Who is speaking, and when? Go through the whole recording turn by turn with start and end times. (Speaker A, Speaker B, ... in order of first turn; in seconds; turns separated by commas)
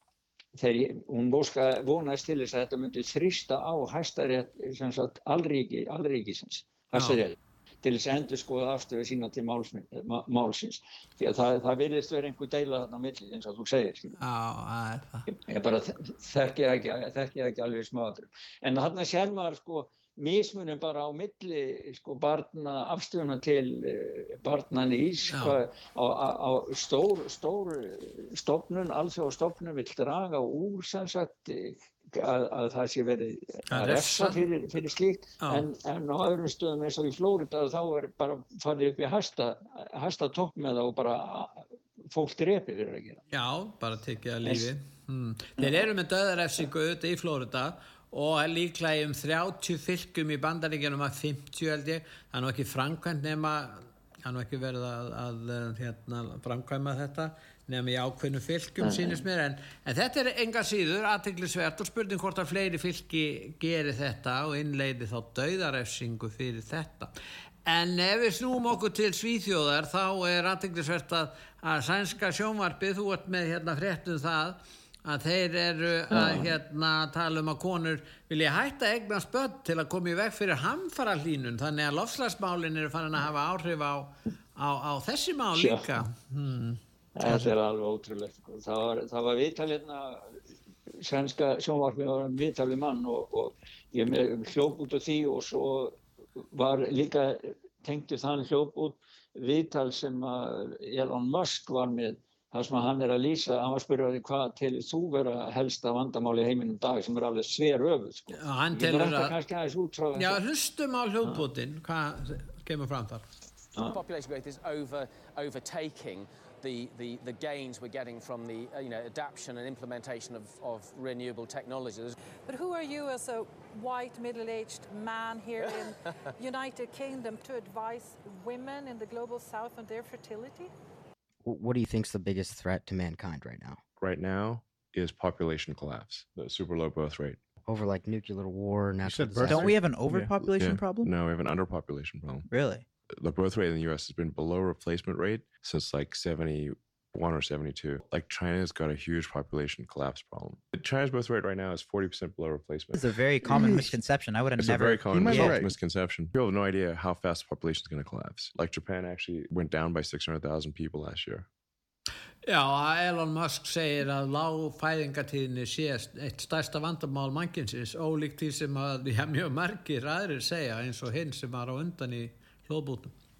Speaker A: 0.6-14.2, Speaker B: 6.9-7.2, Speaker B: 14.2-15.3, Speaker A: 15.3-43.2, Speaker B: 25.3-25.6, Speaker B: 33.7-34.5, Speaker B: 35.4-35.6, Speaker B: 43.3-67.1, Speaker A: 45.6-45.9, Speaker A: 58.8-59.2, Speaker B: 67.7-87.5, Speaker A: 76.1-76.5, Speaker A: 85.5-85.9, Speaker A: 87.2-90.4, Speaker A: 91.0-96.0, Speaker A: 96.5-110.4, Speaker B: 108.3-109.3, Speaker B: 110.1-113.2, Speaker C: 113.9-122.2, Speaker D: 122.5-130.7, Speaker E: 131.4-133.8, Speaker F: 134.0-137.4, Speaker E: 137.6-139.8, Speaker F: 139.0-142.5, Speaker G: 139.1-141.1, Speaker G: 142.5-142.8, Speaker F: 143.1-154.0, Speaker G: 152.9-155.7, Speaker E: 153.5-153.8, Speaker F: 154.6-161.5, Speaker E: 155.2-155.7, Speaker B: 162.4-173.1